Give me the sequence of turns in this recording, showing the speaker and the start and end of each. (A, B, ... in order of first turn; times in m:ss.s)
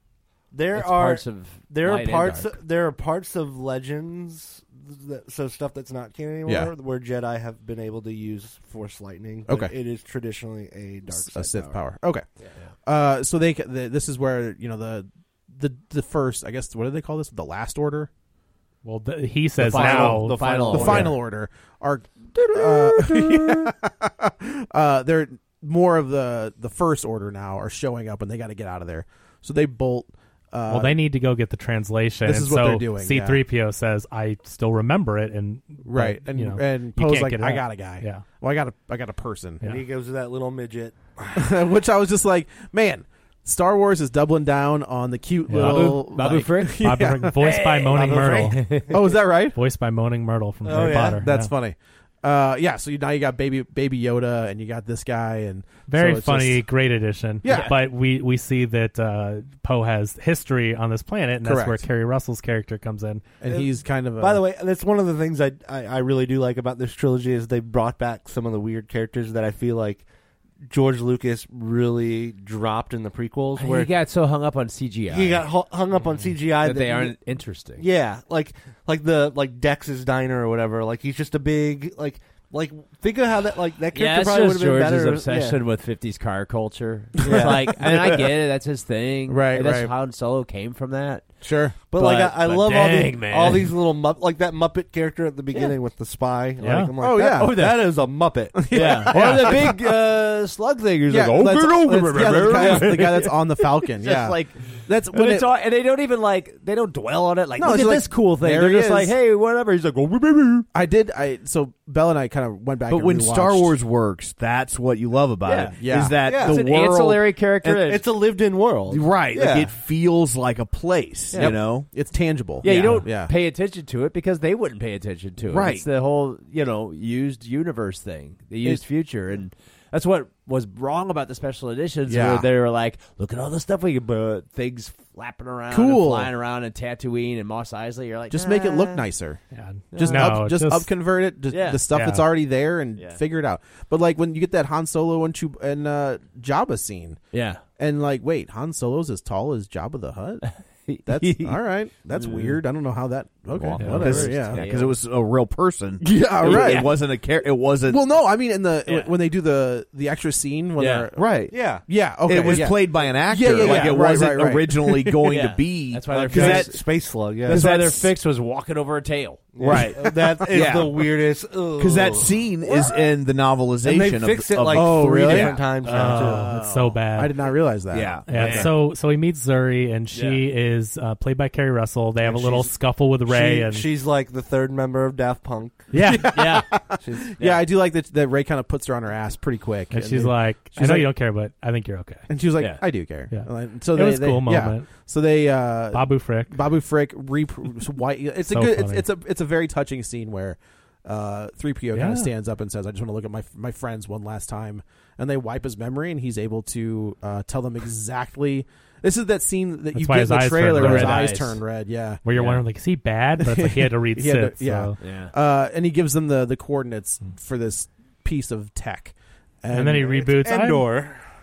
0:00.5-0:11.8 A
0:00.7-0:02.6 B
0:06.4-0:06.7 C
0:09.5-0:09.7 C
0:11.1-0:12.2 C
0:12.4-0:12.7 B
0:12.8-0:18.1 C
0:18.8-0:21.0 D
0:19.6-0:21.2 B
0:19.7-0:21.1 A
0:20.7-0:31.0 C
0:22.3-0:23.7 B
0:30.7-0:38.2 D
0:32.2-0:33.4 C
0:35.8-0:39.6 C
0:39.6-0:41.5 A
0:41.4-0:47.4 C
0:45.5-0:46.2 D
0:45.6-0:49.0 B
0:46.8-0:51.5 D
0:48.0-0:48.5 A
0:48.9-0:49.6 C
0:50.6-0:51.2 A
0:51.2-0:56.6 C
0:55.9-1:03.3 D
0:57.4-0:57.8 C
0:57.4-0:57.7 B
1:01.4-1:01.8 C
1:03.4-1:04.4 C
1:03.5-1:10.0 A
1:10.7-1:13.9 A
1:13.6-1:15.5 B
1:15.1-1:17.2 A
1:16.6-1:17.8 B
1:17.8-1:25.6 A
1:23.9-1:33.7 B
1:27.2-1:28.3 C
1:27.2-1:27.6 A
1:29.3-1:29.9 C
1:31.4-1:31.8 C
1:31.9-1:39.6 A
1:36.6-1:36.9 D
1:37.0-1:37.8 C
1:37.3-1:37.9 B
1:38.6-1:39.8 C
1:38.7-1:44.6 B
1:41.1-1:45.5 C
1:45.1-1:50.7 B
1:47.6-1:49.1 C
1:50.7-1:53.8 C
1:52.9-1:57.8 E
1:55.4-1:58.0 B
1:55.8-1:56.3 C
1:56.2-1:56.6 A
1:57.7-1:59.7 A
1:58.9-2:01.9 E
2:01.3-2:03.3 C
2:02.6-2:03.0 E
2:02.6-2:19.0 B
2:05.5-2:05.9 E
2:12.1-2:12.5 C
2:15.7-2:16.3 C
2:18.3-2:19.4 C
2:19.5-2:20.9 D
2:19.9-2:20.3 B
2:20.0-2:27.2 C
2:21.5-2:21.8 B
2:21.9-2:22.2 D
2:27.3-2:27.6 B
2:27.8-2:30.5 C
2:30.4-2:31.6 B
2:31.0-2:34.6 C
2:32.1-2:32.6 B
2:33.5-2:35.0 B
2:33.8-2:38.0 E
2:36.0-2:36.9 C
2:36.4-2:36.9 B
2:37.9-2:41.3 C
2:38.8-2:39.1 B
2:40.8-2:41.1 B
2:41.2-2:46.7 E
2:41.5-2:41.8 A
2:41.8-2:44.9 C
2:42.4-2:43.1 A
2:43.6-2:43.9 B
2:45.3-2:46.8 B
2:46.1-2:47.9 A
2:47.4-2:49.5 B
2:47.5-2:47.9 E
2:49.5-2:53.0 A
2:49.6-2:50.1 C
2:49.6-2:51.1 E
2:51.8-2:55.6 E
2:53.8-2:56.5 A
2:54.7-2:58.7 C
2:55.8-2:57.3 D
2:57.9-2:58.6 E
2:58.3-3:03.8 D
2:58.3-2:58.7 B
3:00.1-3:00.4 B
3:02.2-3:02.7 A
3:03.2-3:05.9 A
3:05.9-3:06.4 D
3:06.0-3:11.1 C
3:06.3-3:06.8 B
3:07.0-3:07.3 A
3:09.9-3:12.3 D
3:12.3-3:32.2 C
3:12.6-3:12.8 B
3:13.3-3:15.0 D
3:15.9-3:16.6 D
3:18.5-3:19.0 D
3:21.9-3:22.3 D
3:29.9-3:31.4 D
3:30.8-3:31.6 B
3:32.2-3:35.0 D
3:32.3-3:32.6 B
3:33.4-3:40.2 C
3:35.0-3:35.3 B
3:39.7-3:41.0 D
3:40.1-3:41.3 A